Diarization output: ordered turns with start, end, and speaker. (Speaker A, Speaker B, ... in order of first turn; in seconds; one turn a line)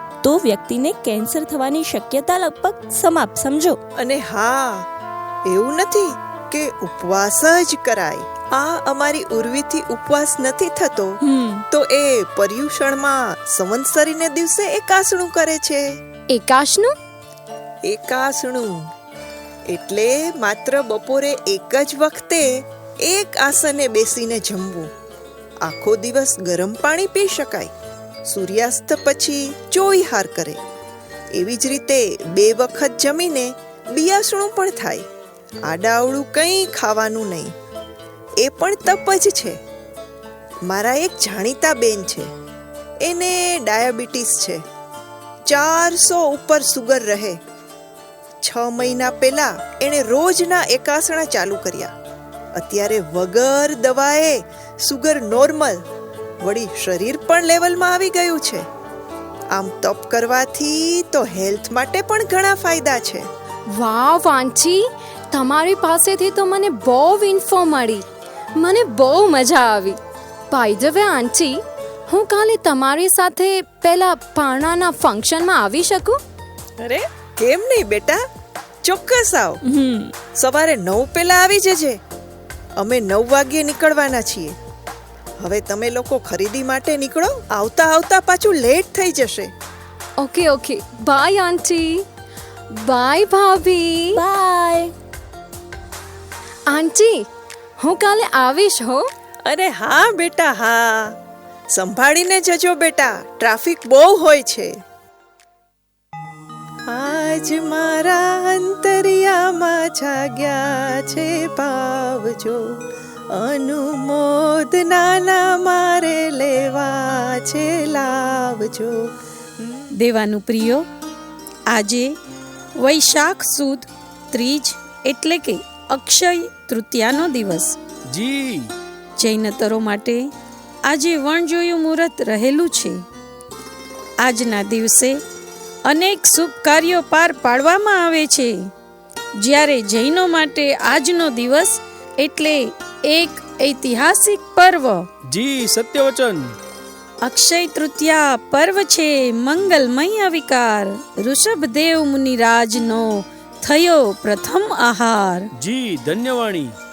Speaker A: 0.2-3.8
Speaker B: 4.0-4.9
Speaker B: 5.5-11.2
Speaker A: 11.2-11.6
Speaker B: 11.7-15.9
Speaker C: 16.3-16.9
Speaker B: 17.9-18.9
Speaker B: 19.7-24.9
Speaker B: 25.6-27.7
Speaker B: 28.3-30.6
Speaker B: 31.3-35.1
Speaker B: 35.6-37.5
Speaker B: 38.4-39.6
Speaker B: 40.7-42.3
Speaker B: 43.0-44.6
Speaker B: 45.5-47.4
Speaker B: 48.4-51.9
Speaker B: 52.5-55.8
Speaker B: 56.4-58.6
Speaker B: 59.5-63.3
Speaker C: 63.8-68.0
Speaker C: 68.6-70.0
Speaker C: 70.5-76.2
Speaker B: 76.8-78.2
Speaker B: 78.8-79.6
Speaker A: 79.6-80.1
Speaker B: 80.3-82.0
Speaker B: 82.8-84.5
Speaker B: 85.4-89.5
Speaker C: 90.2-92.0
Speaker C: 92.8-94.2
Speaker A: 94.1-94.9
Speaker C: 96.7-97.2
Speaker C: 97.8-99.1
Speaker B: 99.5-101.1
Speaker B: 101.7-104.7
Speaker B: 106.9-112.6
Speaker B: 113.3-119.0
Speaker D: 120.0-120.8
Speaker D: 121.7-122.1
Speaker D: 122.8-127.8
Speaker E: 128.1-128.7
Speaker D: 129.2-130.3
Speaker D: 130.8-133.0
Speaker D: 134.2-135.2
Speaker D: 135.9-138.7
Speaker D: 139.4-145.1
Speaker E: 145.3-146.6
Speaker D: 147.2-155.5
Speaker E: 155.5-156.8